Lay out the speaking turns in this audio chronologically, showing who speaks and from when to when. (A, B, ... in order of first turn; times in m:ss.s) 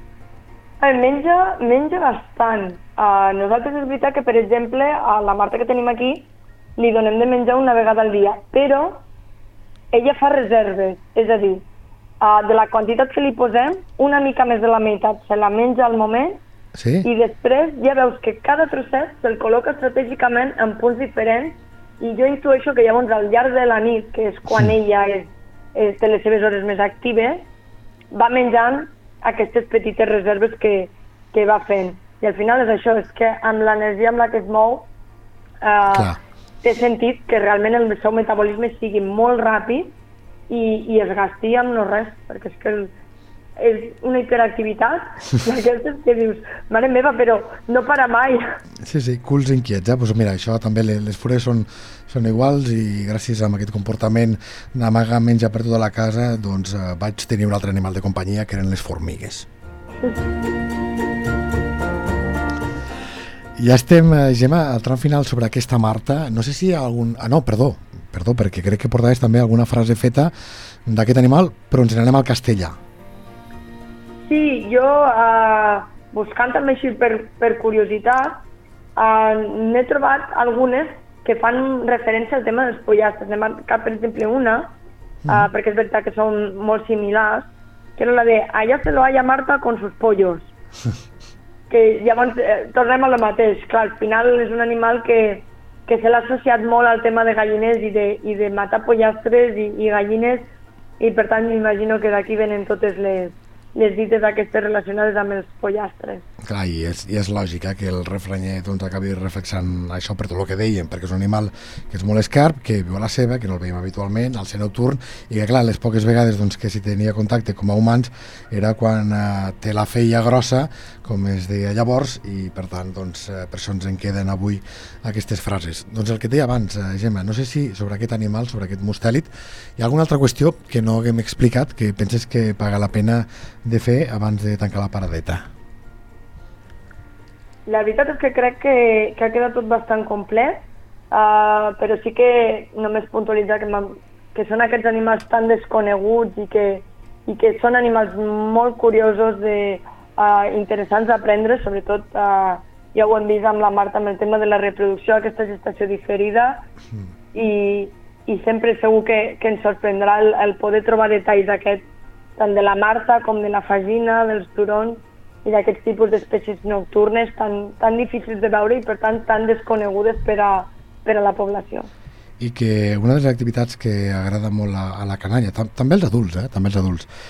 0:00.8-0:09.0 A
0:09.9-0:11.6 A
0:12.2-0:16.4 A
0:16.7-0:17.1 B
0:17.0-0:27.5 A
0:28.1-0:34.9 A
0:35.6-0:39.9 A
0:35.9-0:36.2 B
0:40.5-0:42.9 A
0:43.6-0:48.6 A
0:48.8-0:59.5 B
1:03.6-1:10.3 B
1:10.8-1:12.8 B
1:14.3-1:18.4 A
1:19.0-1:24.7 A
1:25.2-1:25.5 B
1:25.3-1:30.5 A
1:31.7-1:46.2 A
1:46.4-2:15.5 B
2:17.7-2:36.6 A
2:37.3-2:41.8 A
2:42.4-2:51.9 A
2:52.4-2:57.1 B